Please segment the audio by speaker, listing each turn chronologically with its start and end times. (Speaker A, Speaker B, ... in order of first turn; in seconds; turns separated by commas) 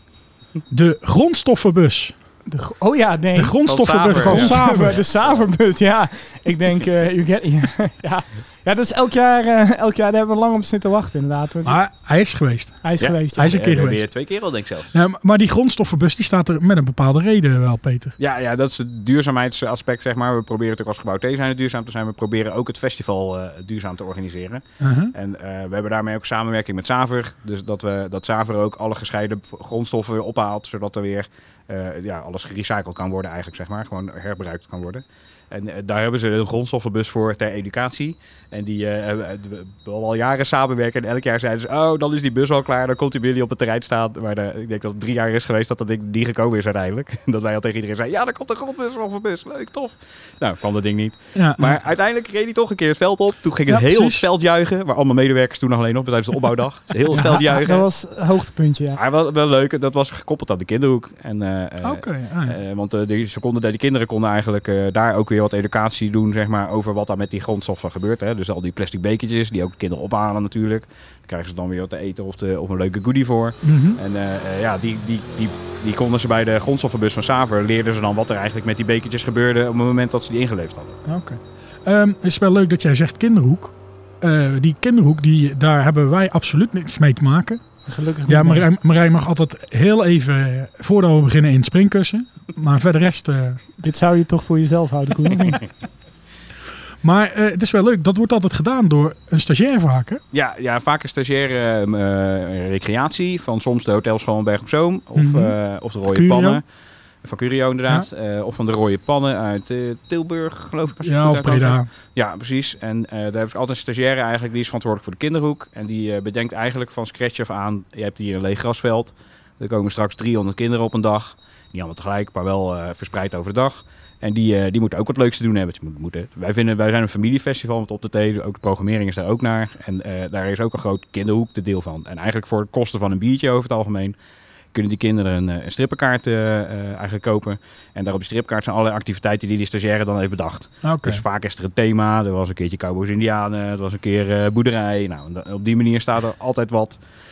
Speaker A: 0.7-2.1, Speaker B: 2.5-11.8, Speaker A: 3.4-5.0, Speaker C: 3.6-5.5, Speaker A: 11.7-14.3, Speaker B: 12.8-13.6, Speaker C: 13.0-14.9, Speaker A: 14.9-18.1, Speaker C: 18.2-57.9, Speaker A: 24.8-25.1, Speaker A: 51.3-51.7, Speaker A: 53.7-54.3, Speaker B: 57.1-59.0, Speaker C: 59.0-81.0, Speaker A: 61.8-62.6, Speaker A: 73.6-74.0, Speaker A: 81.0-93.6, Speaker B: 87.9-88.7, Speaker B: 93.8-95.6, Speaker A: 97.0-100.2, Speaker C: 100.3-106.6, Speaker A: 105.2-106.6, Speaker C: 107.2-134.2, Speaker A: 111.0-111.9, Speaker C: 134.7-147.0, Speaker A: 140.8-141.2